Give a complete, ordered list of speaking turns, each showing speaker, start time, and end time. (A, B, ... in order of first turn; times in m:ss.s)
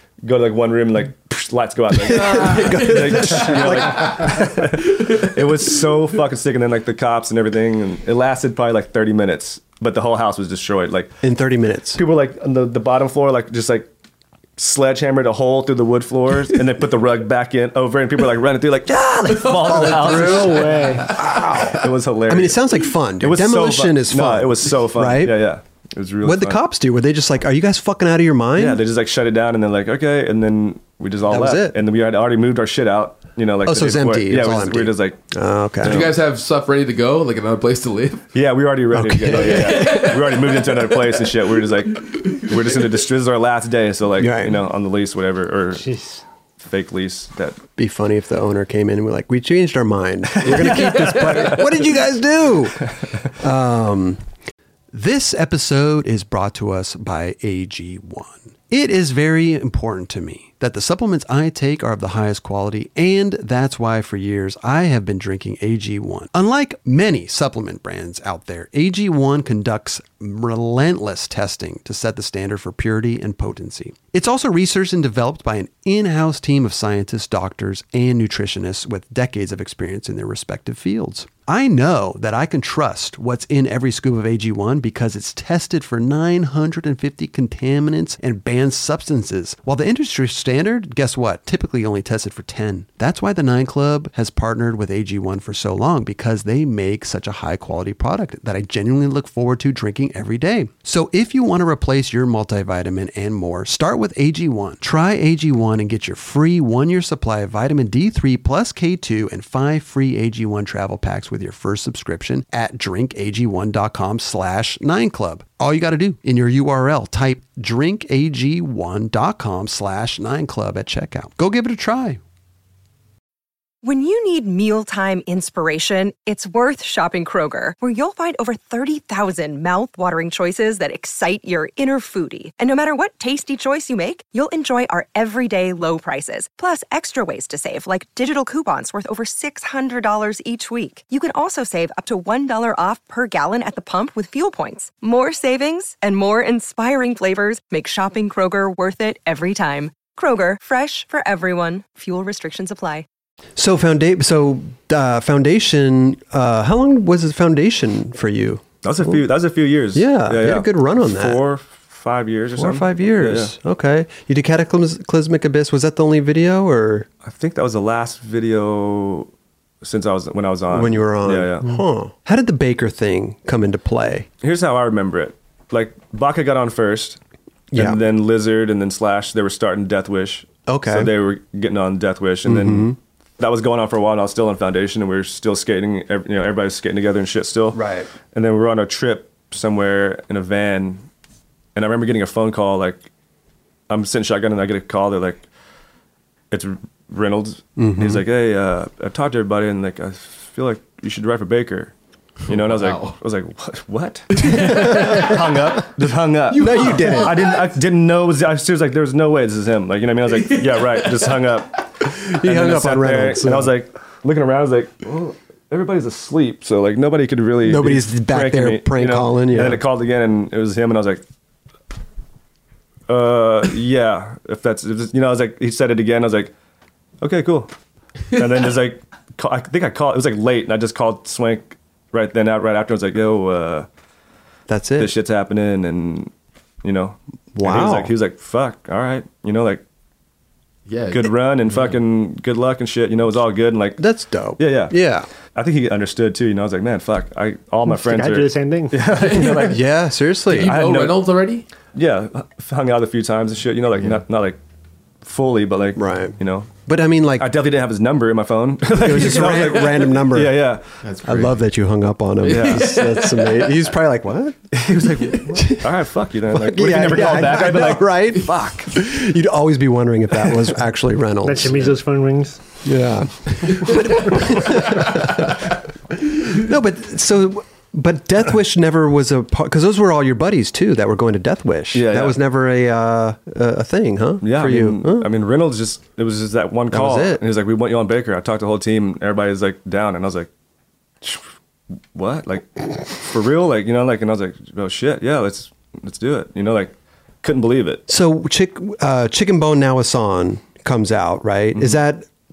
0:00.2-0:11.1 A
0:02.0-0:04.7 B
0:02.1-0:05.3 C
0:11.2-0:12.0 B
0:12.0-0:13.9 A
0:14.6-0:22.6 A
0:19.3-0:21.8 C
0:19.6-0:25.4 B
0:19.9-0:21.1 D
0:23.2-0:26.6 A
0:26.2-0:28.8 B
0:28.6-0:35.2 A
0:31.3-0:31.8 B
0:33.6-0:36.1 B
0:35.8-0:36.1 A
0:35.8-0:38.2 C
0:38.3-0:45.8 A
0:38.9-0:40.1 B
0:39.3-0:41.3 C
0:42.0-0:42.8 C
0:44.2-0:44.6 B
0:45.8-0:46.2 D
0:46.6-0:47.6 A
0:47.8-0:54.2 B
0:50.3-0:51.7 A
0:51.0-0:51.5 C
0:54.9-2:02.2 B
2:03.8-2:33.1 E
2:33.6-2:39.2 B
2:38.8-2:43.6 A
2:39.9-2:41.4 B
2:42.6-2:47.1 B
2:47.2-2:49.3 A
2:49.8-2:51.7 A
2:50.7-2:54.3 B
2:54.4-2:57.2 A
2:57.7-2:58.0 B
2:57.7-3:11.0 A
3:00.7-3:01.1 B
3:02.4-3:03.0 B
3:07.7-3:08.1 B
3:11.8-3:13.1 A
3:13.9-3:15.4 A
3:16.5-3:21.9 A
3:17.8-3:18.2 B
3:22.5-3:41.2 A
3:22.5-3:23.2 C
3:24.3-3:25.4 C
3:24.6-3:25.4 B
3:26.5-3:27.6 C
3:26.6-3:27.5 B
3:30.4-3:31.3 C
3:32.0-3:33.7 B
3:37.6-3:39.8 B
3:43.1-3:46.5 A
3:47.2-3:47.7 A
3:48.3-3:53.9 A
3:54.7-3:55.1 B
3:55.0-3:56.3 A
3:56.8-3:59.8 A
3:57.5-3:58.1 B
4:00.9-4:02.0 C
4:01.1-4:04.0 A
4:04.0-4:05.3 B
4:04.6-4:05.0 A
4:05.5-4:09.8 A
4:07.9-4:09.5 D
4:09.2-4:09.7 C
4:09.6-4:10.8 B
4:10.5-4:11.7 C
4:10.5-4:11.2 A
4:11.9-4:14.6 A
4:15.2-4:16.7 A
4:16.0-4:17.5 B
4:17.4-4:20.8 A
4:18.9-4:20.7 B
4:21.0-4:21.6 C
4:21.2-4:24.7 B
4:22.4-4:23.9 C
4:22.5-4:23.0 A
4:24.7-4:29.0 A
4:25.4-4:25.9 B
4:26.5-4:32.0 B
4:31.4-4:32.6 D
4:32.8-4:45.3 B
4:33.7-4:34.0 C
4:34.9-4:35.5 C
4:41.9-4:42.4 A
4:44.4-4:50.5 A
4:46.9-4:47.4 B
4:52.1-4:58.0 A
4:58.1-5:02.3 B